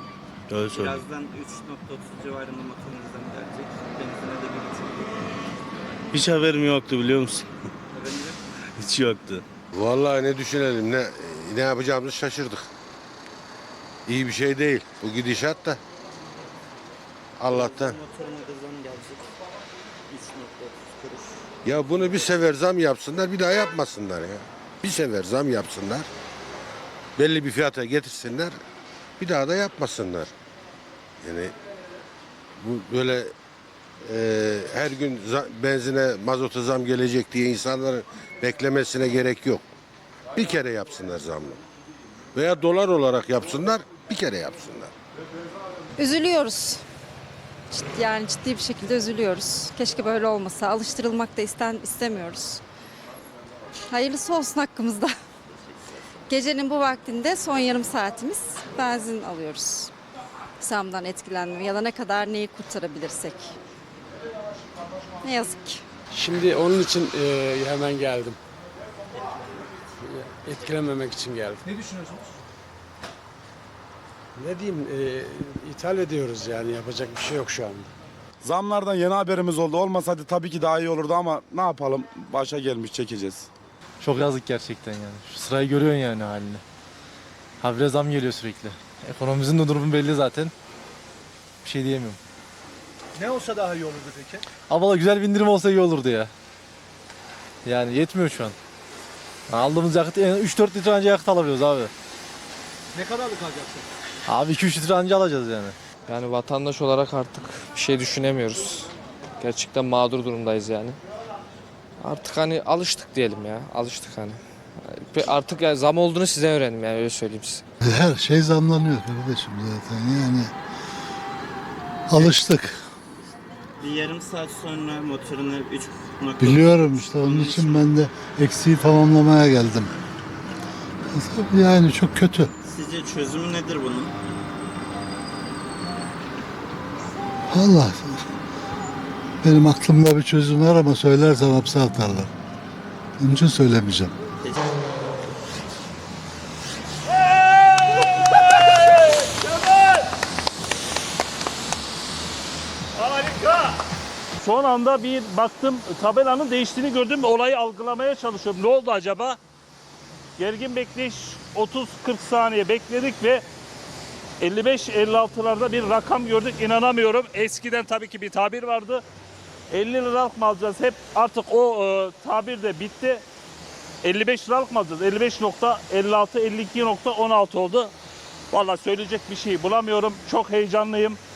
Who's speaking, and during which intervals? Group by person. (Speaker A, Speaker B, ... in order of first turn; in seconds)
Speaker A: 0.5-1.0, 6.1-7.5, 8.7-9.4
Speaker B: 0.6-5.2, 7.9-8.6, 17.5-19.3, 20.1-21.4, 123.8-127.9, 132.7-134.1
Speaker C: 9.7-12.7, 14.1-15.8, 17.4-18.0, 21.6-26.1, 27.2-28.6, 29.2-30.3, 31.2-31.5, 32.6-33.3, 34.0-39.6, 40.3-41.6, 42.3-44.9
Speaker D: 46.0-46.8, 47.7-52.6, 53.9-55.1, 56.3-59.9, 60.6-63.5, 65.2-65.8
Speaker E: 66.1-68.4, 70.0-72.0, 74.4-77.9
Speaker F: 78.4-83.5
Speaker G: 84.0-86.6, 87.6-90.5, 91.6-92.2, 94.7-96.3, 97.6-98.5, 99.5-101.9, 104.3-105.8
Speaker H: 93.2-94.4, 102.9-103.8
Speaker I: 106.1-108.9, 109.4-111.0, 112.0-117.6
Speaker J: 117.8-120.5, 122.1-122.8, 126.4-129.9, 131.1-132.5, 137.5-138.2, 139.4-142.3, 143.2-144.1
Speaker K: 148.1-150.0, 152.9-153.8, 154.4-159.4, 160.4-163.4, 164.4-169.0, 169.7-173.2, 174.0-177.9, 178.5-181.2